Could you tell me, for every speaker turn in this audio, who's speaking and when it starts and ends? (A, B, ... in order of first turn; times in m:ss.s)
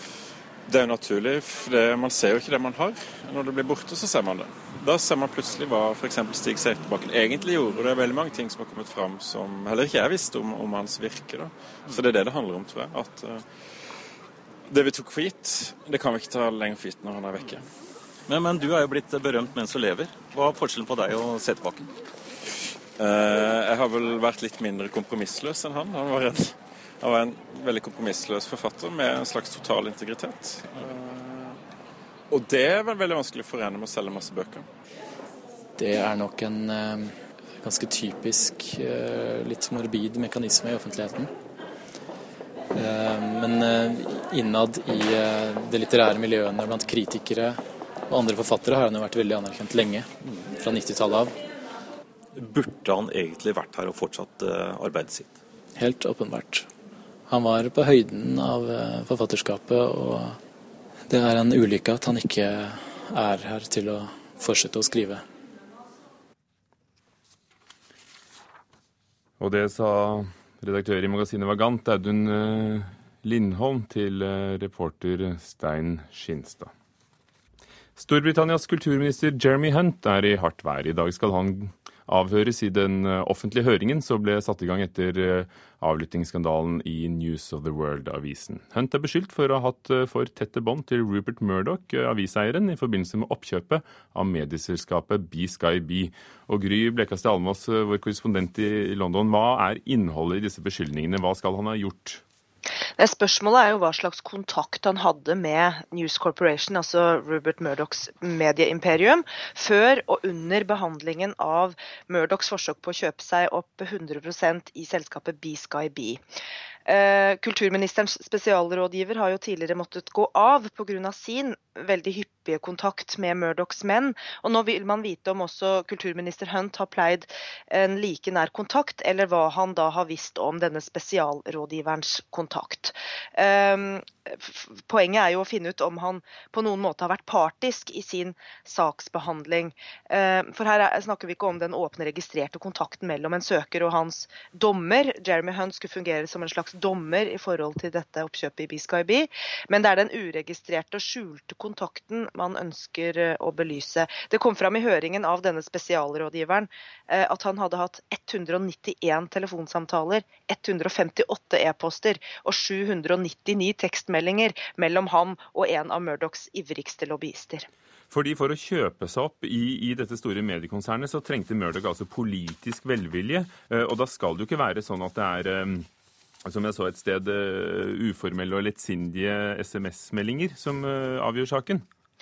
0:00.7-0:13.4 A
0:14.7-0:17.6 A
0:18.3-0:20.9 B
0:23.0-0:31.6 A
0:32.3-0:34.7 A
0:35.8-0:37.0 C
0:37.6-0:41.3 C
0:42.8-0:47.6 C
0:48.1-0:50.0 C
0:50.6-0:51.3 C
0:52.6-0:55.3 B
0:55.8-0:56.7 C
0:57.3-1:00.3 C
1:01.1-1:05.2 C
1:09.4-1:16.7 D
1:18.0-1:42.2 D
1:43.0-1:56.2 E
1:56.9-2:47.7 E
2:48.1-2:55.9 D
2:56.4-3:01.8 D